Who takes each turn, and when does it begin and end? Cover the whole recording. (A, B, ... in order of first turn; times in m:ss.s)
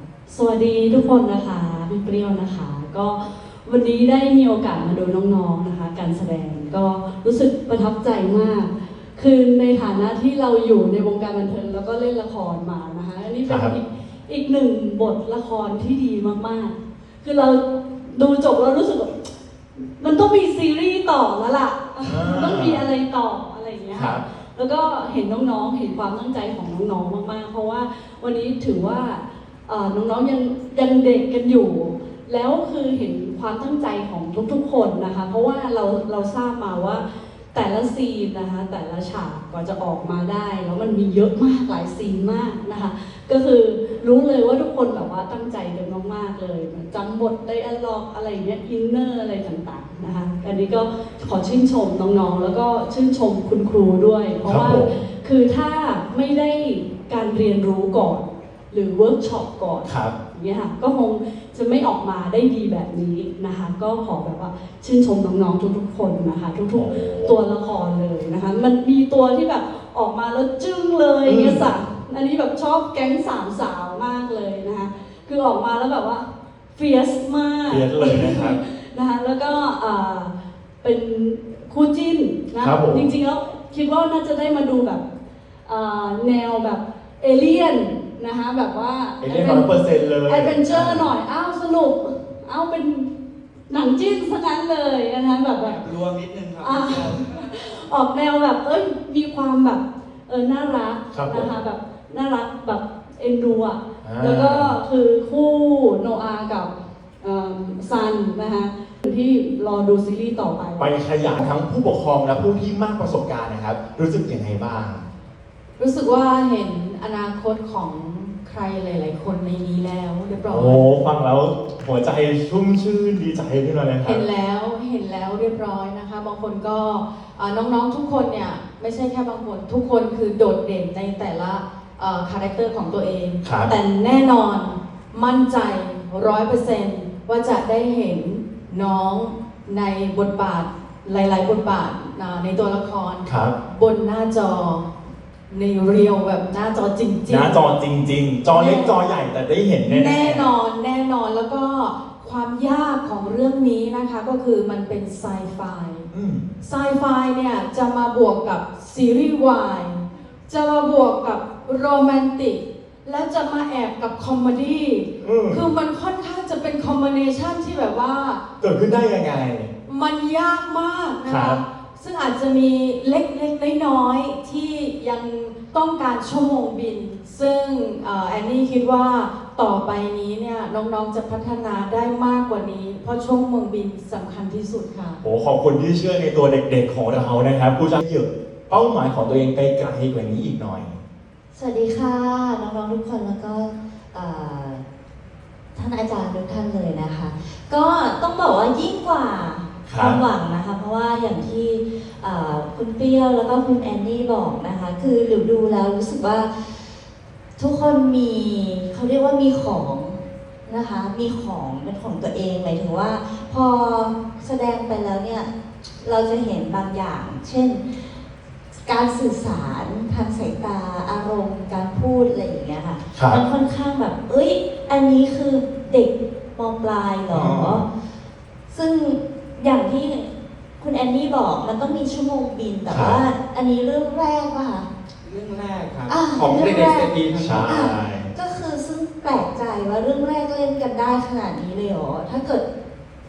0:00.2-1:25.0 A
0:13.4-0:13.7 B
0:22.0-0:22.8 B
0:23.9-0:24.2 B
0:54.4-0:55.0 B
0:59.8-1:00.1 B
1:06.7-1:07.4 B
1:11.2-1:11.7 B
1:17.7-1:18.6 B
1:22.6-1:23.1 B
1:25.6-1:33.1 A
1:29.2-1:31.1 B
1:33.7-1:50.9 A
1:41.1-1:41.5 B
1:44.0-1:44.8 B
1:50.8-1:55.1 B
1:55.8-2:01.1 C
2:00.5-2:04.2 B
2:04.0-2:24.9 C
2:13.4-2:13.7 B
2:23.2-2:23.5 B
2:25.5-2:27.6 C
2:27.3-2:30.5 B
2:28.5-2:29.0 C
2:29.8-2:36.1 C
2:36.1-2:36.5 B
2:36.6-2:48.4 C
2:45.2-2:45.6 B
2:48.6-2:49.7 B
2:49.8-3:05.2 C
2:51.2-2:51.6 B
3:05.2-3:11.0 B
3:11.5-3:14.8 D
3:15.7-3:27.0 D
3:19.8-3:20.2 B
3:27.6-3:38.2 D
3:38.8-3:47.9 D
3:43.1-3:43.4 B
3:47.3-3:47.8 B
3:48.7-3:54.9 D
3:52.9-3:53.2 B
3:55.2-3:57.7 E
3:56.1-3:57.1 D
3:57.3-3:58.3 B
3:57.6-4:02.6 D